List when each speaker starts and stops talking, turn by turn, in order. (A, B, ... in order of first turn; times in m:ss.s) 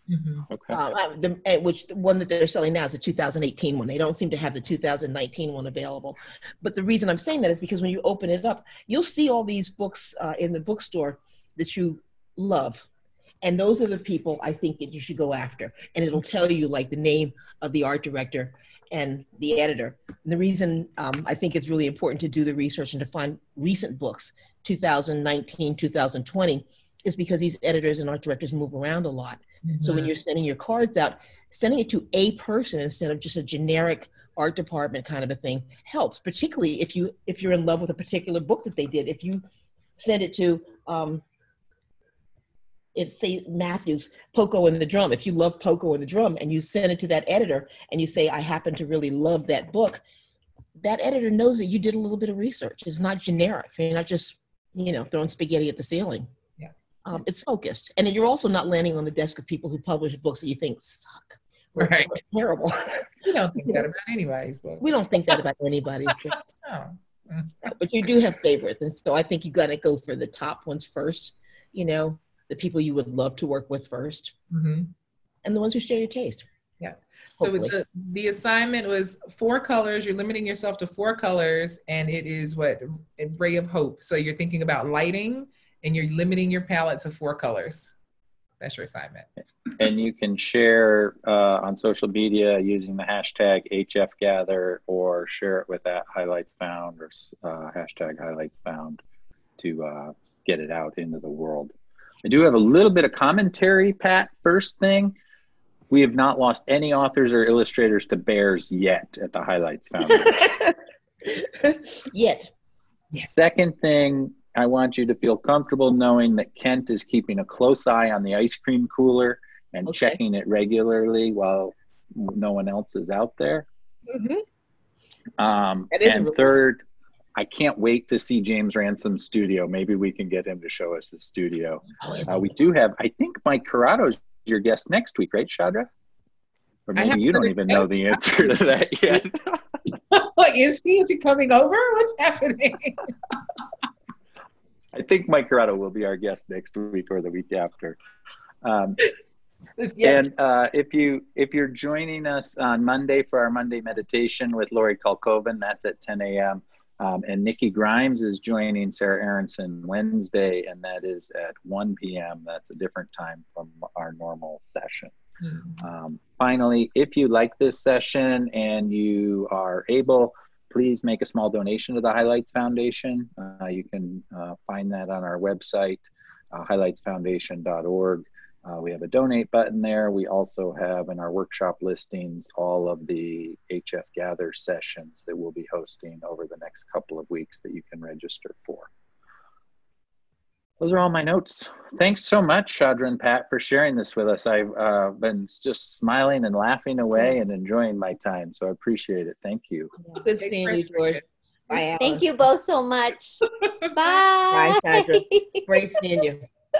0:00.1-0:00.4 A
0:00.5-0:00.8 B
0:00.7-0:12.9 C
0:13.4-0:39.4 C
0:29.6-0:30.1 A
0:40.0-0:41.2 C
0:43.0-0:50.0 C
0:50.8-0:56.3 C
0:57.0-1:03.9 C
1:01.8-1:02.1 A
1:03.2-1:05.4 A
1:04.8-1:06.4 C
1:06.1-1:07.7 A
1:07.6-1:14.3 C
1:14.5-1:14.9 A
1:15.4-1:16.4 C
1:16.8-1:27.9 A
1:17.4-1:17.7 C
1:28.6-1:29.3 A
1:29.8-1:39.0 B
1:39.6-1:45.2 B
1:45.9-1:50.5 B
1:50.1-1:52.5 C
1:53.2-2:03.7 B
1:59.9-2:00.2 C
2:04.1-2:04.4 C
2:05.4-2:06.8 B
2:05.9-2:06.6 C
2:07.4-2:15.9 B
2:12.0-2:12.6 C
2:16.9-2:19.6 B
2:17.0-2:17.9 A
2:20.0-2:23.1 A
2:24.9-2:28.0 B
2:28.6-2:29.0 B
2:29.8-2:30.0 A
2:30.0-2:45.1 B
2:45.4-2:45.8 A
2:45.8-3:08.9 B
3:10.8-3:19.9 B
3:20.1-3:22.2 C
3:20.4-3:21.2 A
3:22.0-3:23.4 D
3:23.6-3:24.2 A
3:23.9-3:25.7 D
3:24.5-3:26.4 C